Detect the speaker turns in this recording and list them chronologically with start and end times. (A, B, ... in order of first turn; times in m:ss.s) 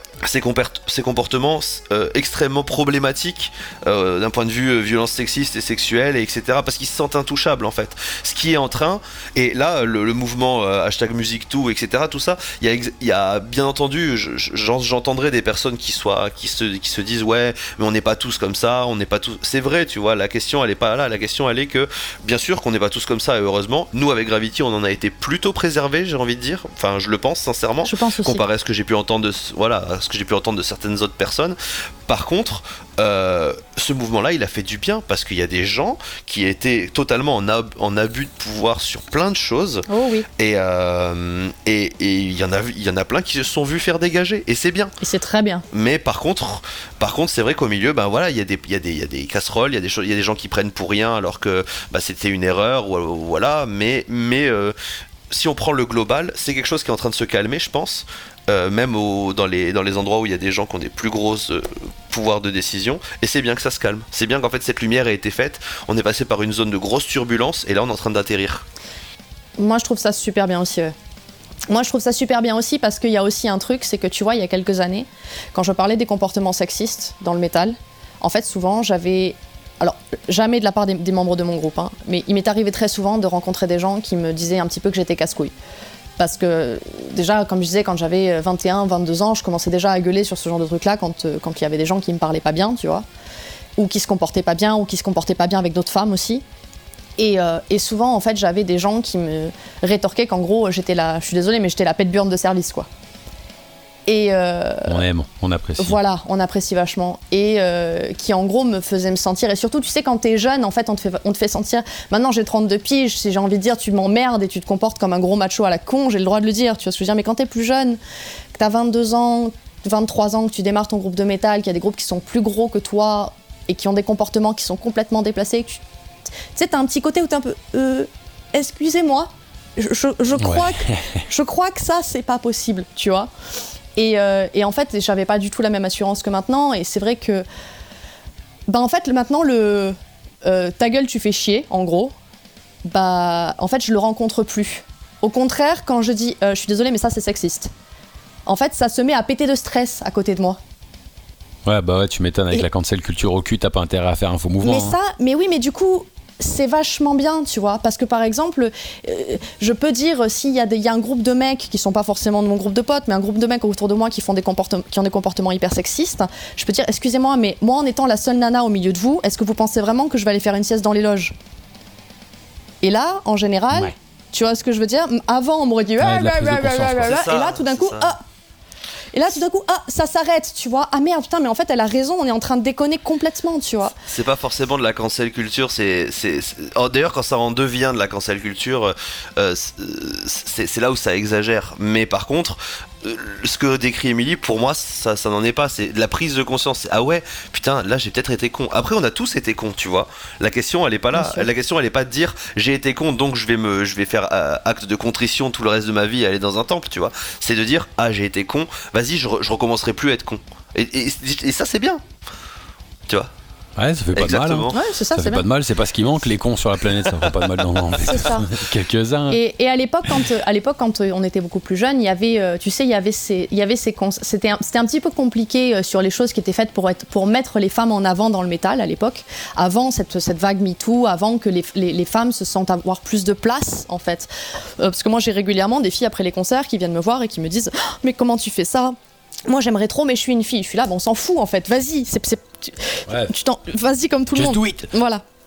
0:00.2-0:39.8 A
0:27.8-0:28.4 B
0:39.9-0:40.2 B
0:40.4-0:44.9 A
0:45.0-0:45.6 B
0:45.7-0:54.7 A
0:55.3-1:08.6 A
1:09.6-1:10.9 B
1:11.7-1:25.5 B
1:26.2-1:33.0 B
1:33.8-1:36.4 B
1:37.2-1:42.9 B
1:44.1-1:45.0 B
1:44.9-1:46.0 C
1:45.8-1:58.0 B
1:58.5-2:05.8 B
2:06.5-2:13.3 B
2:10.4-2:11.2 C
2:14.0-2:17.4 B
2:18.7-2:22.1 B
2:22.8-2:27.7 B
2:28.5-2:30.6 B
2:31.6-2:34.9 C
2:34.6-2:51.3 B
2:52.8-2:58.2 B
2:56.0-2:57.1 C
2:57.0-2:58.1 A
2:59.1-3:03.9 B
3:04.1-3:32.0 A
3:21.1-3:21.5 B
3:33.8-3:39.4 C
3:34.1-3:34.7 A
3:34.7-3:35.4 B
3:38.0-3:38.5 B
3:39.3-3:59.0 B
3:59.5-4:05.2 B
4:04.3-4:04.9 C